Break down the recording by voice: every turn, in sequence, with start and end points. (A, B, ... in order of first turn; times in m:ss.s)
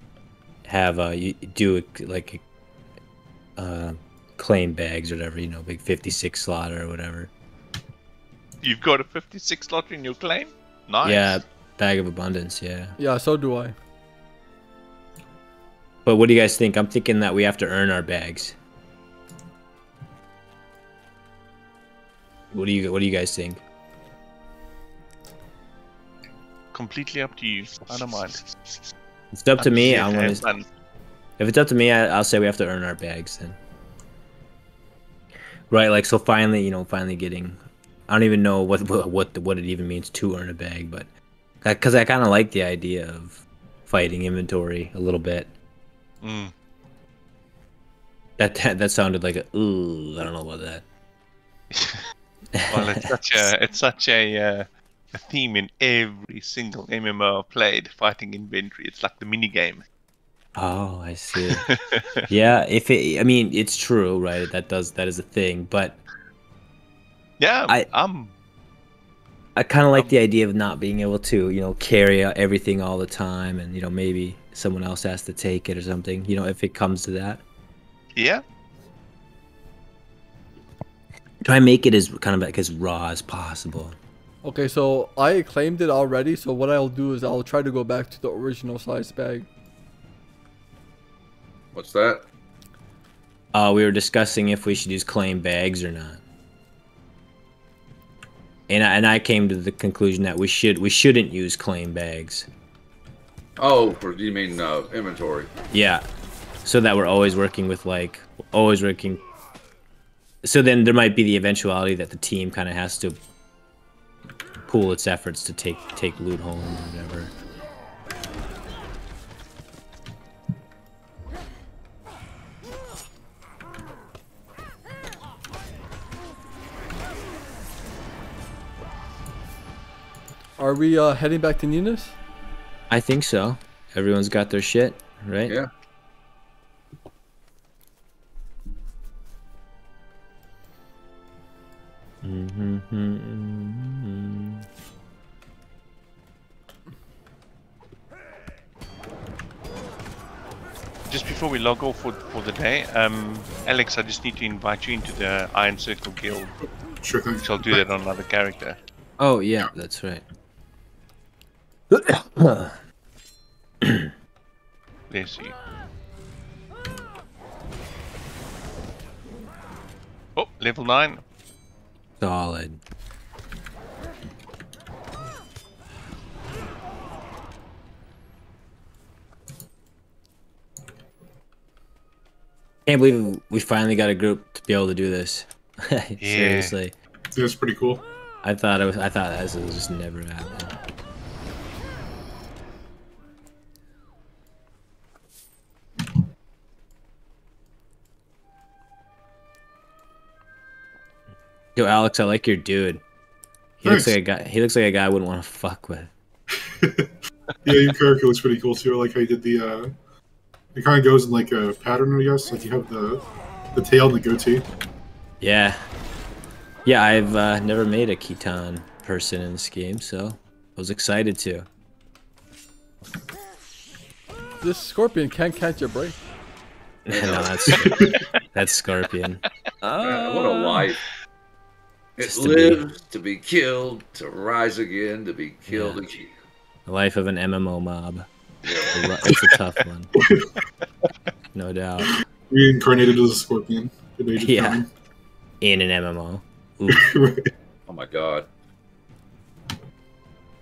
0:00.6-0:02.4 A
0:03.6-0:07.3 A
0:08.6-0:11.4 B
0:11.0-0:13.0 A
0:13.0-0:13.7 C
0:16.0-0:18.6 A
0:22.5-0:23.6 A
0:26.7-0:28.5 B
0:29.3-0:30.5 A
0:29.6-0:30.7 B
0:31.4-0:33.6 A
0:35.7-0:41.1 A
0:41.6-0:45.5 A
0:46.2-0:46.5 B
0:48.4-0:50.8 A
0:51.7-0:52.0 B
0:52.5-0:53.5 A
0:52.7-0:59.8 B
1:00.6-1:01.6 A
1:01.4-1:02.3 B
1:02.3-1:06.0 A
1:07.4-1:08.3 B
1:09.5-1:17.4 A
1:18.2-1:18.4 B
1:21.4-1:24.0 A
1:24.4-1:29.5 C
1:31.7-1:32.2 D
1:33.5-1:36.2 A
1:38.7-1:42.5 A
1:43.6-1:45.5 D
1:45.7-1:46.0 A
1:46.6-1:49.2 A
1:50.4-1:53.2 A
1:54.7-1:57.3 A
2:10.6-2:12.2 C
2:12.9-2:15.6 A
2:22.2-2:24.6 A
2:31.1-2:36.6 B
2:37.0-2:37.9 E
2:37.4-2:38.8 B
2:39.2-2:40.2 A
2:41.9-2:42.8 A
2:43.8-2:44.1 A
2:45.1-2:45.6 B
2:50.4-2:51.2 B
2:52.2-2:52.8 A
3:02.8-3:06.9 A
3:06.2-3:06.8 B
3:07.3-3:08.0 E
3:08.4-3:10.8 A
3:21.8-3:23.0 A
3:23.8-3:26.1 A
3:23.8-3:24.2 E
3:26.7-3:27.1 E
3:27.6-3:29.9 E
3:30.7-3:34.6 E
3:35.4-3:35.8 A
3:36.8-3:41.7 A
3:44.6-3:46.2 C
3:47.0-3:50.9 A
3:47.1-3:47.9 D
3:47.7-3:48.2 E
3:50.0-3:51.0 D
3:52.2-3:56.3 D
3:52.2-3:52.8 A
3:55.7-3:56.0 A
3:56.8-3:58.3 A
3:58.6-3:59.1 D
3:58.9-4:00.1 A
3:59.2-3:59.5 E
4:00.1-4:00.5 E
4:01.5-4:02.1 A
4:02.5-4:04.9 E
4:04.4-4:04.8 A
4:05.6-4:07.0 A
4:06.9-4:07.5 E
4:07.9-4:08.5 D